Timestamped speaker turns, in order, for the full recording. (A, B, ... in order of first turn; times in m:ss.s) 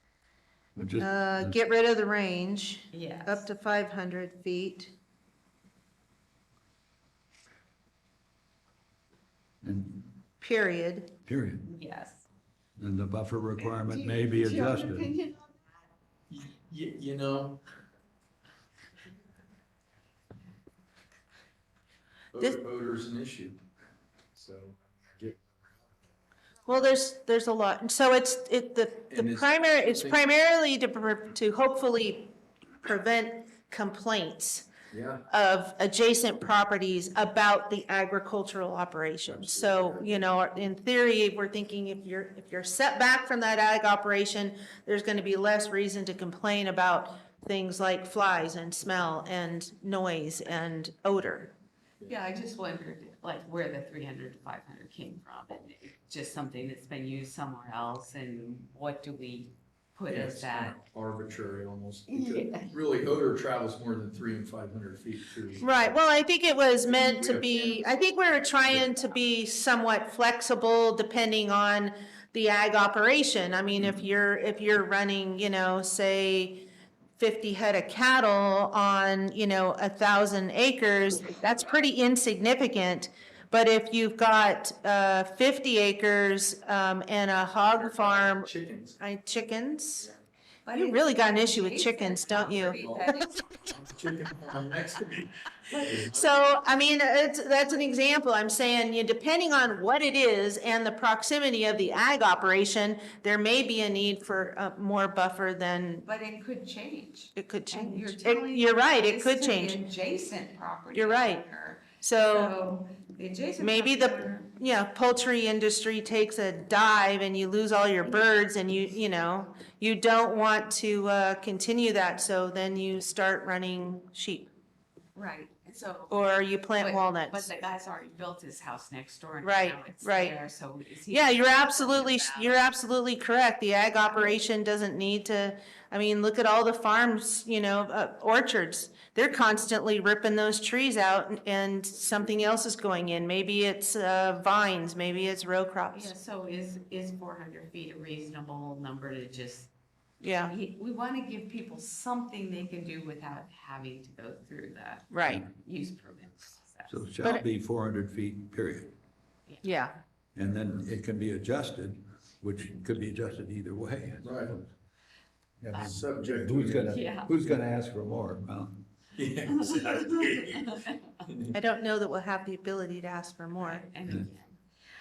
0:00.7-0:01.6 A
0:01.0-0:04.9 B
0:02.9-0:03.4 C
0:09.6-0:10.2 A
0:10.4-0:11.1 B
0:11.2-0:11.7 A
0:11.6-0:12.2 C
0:12.8-0:15.1 A
0:13.6-0:15.7 C
0:16.3-0:17.6 D
0:22.3-0:23.6 D
0:24.3-0:25.4 D
0:26.6-0:32.3 B
0:29.1-0:30.2 D
0:32.8-0:34.7 B
0:34.9-0:35.2 D
0:35.3-0:51.5 B
0:39.3-0:40.0 D
0:52.0-1:00.8 C
1:00.1-1:05.9 D
1:02.1-1:02.7 C
1:05.6-1:30.1 B
1:06.9-1:09.1 D
1:27.6-1:29.0 D
1:30.6-1:33.5 C
1:30.7-1:32.8 B
1:32.8-1:33.1 D
1:33.6-1:36.5 D
1:35.7-1:36.0 C
1:36.0-1:46.0 B
1:46.0-1:54.5 C
1:47.4-1:49.8 B
1:50.9-1:51.4 B
1:52.0-1:52.5 B
1:53.6-2:04.5 B
2:05.1-2:06.2 C
2:06.1-2:07.5 B
2:06.8-2:12.6 C
2:09.4-2:10.4 B
2:11.1-2:26.1 B
2:25.9-2:29.7 C
2:30.2-2:30.5 B
2:30.4-2:36.9 C
2:35.1-2:35.4 B
2:36.9-2:38.9 A
2:39.6-2:40.0 B
2:40.3-2:44.7 A
2:44.2-2:44.5 D
2:45.6-2:48.9 A
2:45.7-2:46.0 C
2:45.8-2:47.0 D
2:46.9-2:47.3 C
2:49.1-2:50.6 D
2:49.5-2:51.1 C
2:51.2-2:51.5 D
2:51.5-2:53.8 B
2:53.6-2:54.6 C